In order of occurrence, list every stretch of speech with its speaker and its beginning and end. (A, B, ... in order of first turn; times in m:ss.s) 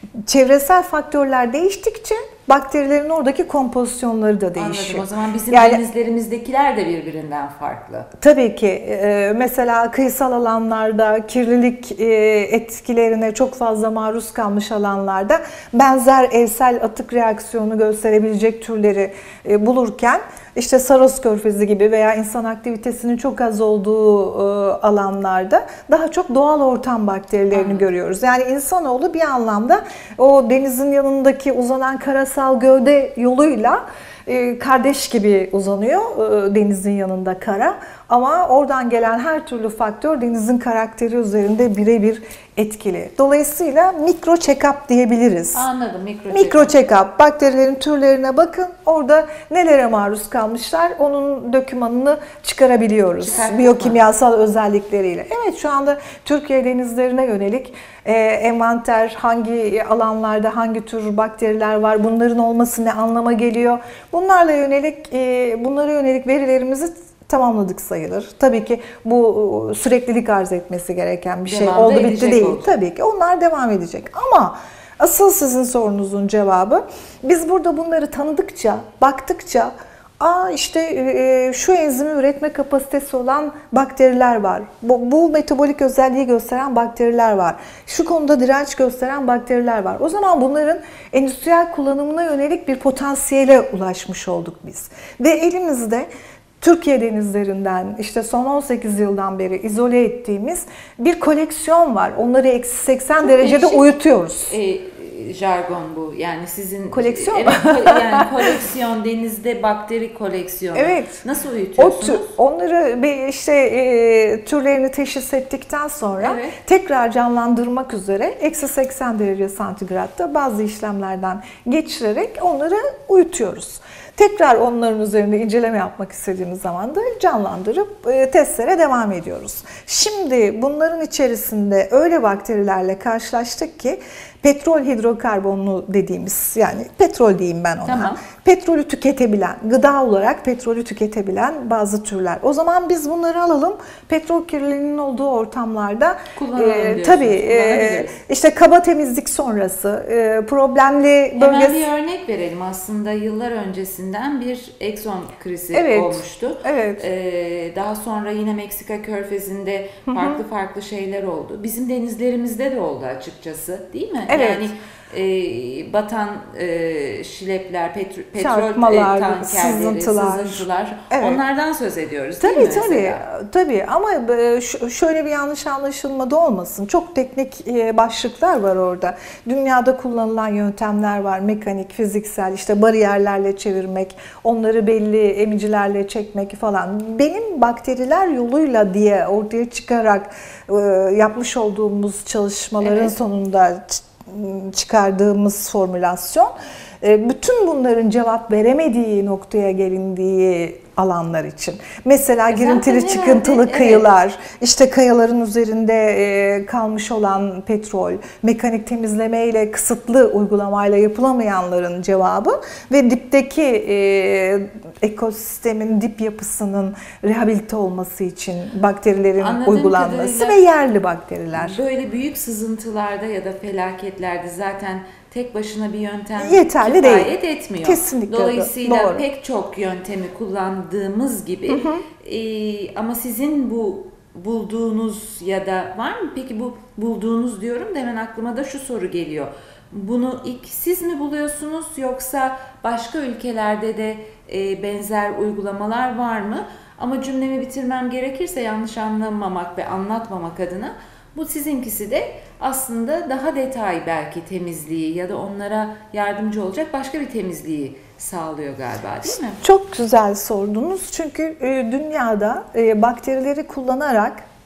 0:00.3-0:05.8 A
0:04.6-0:08.1 B
0:08.2-0:45.6 A
0:27.5-0:27.9 B
0:45.5-0:46.8 B
0:46.3-1:36.1 A
0:53.2-0:54.1 B
1:11.4-1:12.7 B
1:36.6-1:44.5 A
1:43.2-1:44.0 B
1:44.5-1:52.3 B
1:46.9-1:48.3 A
1:50.7-1:51.2 A
1:51.8-2:31.9 A
1:56.2-1:56.6 B
2:17.9-2:18.2 B
2:26.4-2:28.1 B
2:31.4-2:53.2 B
2:35.7-2:37.0 A
2:40.1-2:40.4 A
2:44.3-2:44.7 A
2:48.4-2:51.4 A
2:52.4-3:41.8 A
3:12.8-3:13.1 B
3:22.5-3:24.1 B
3:39.4-3:40.7 B
3:41.5-4:19.6 B
3:46.4-3:47.3 A
3:47.8-3:49.2 A
3:51.7-3:52.0 A
4:19.6-4:24.4 A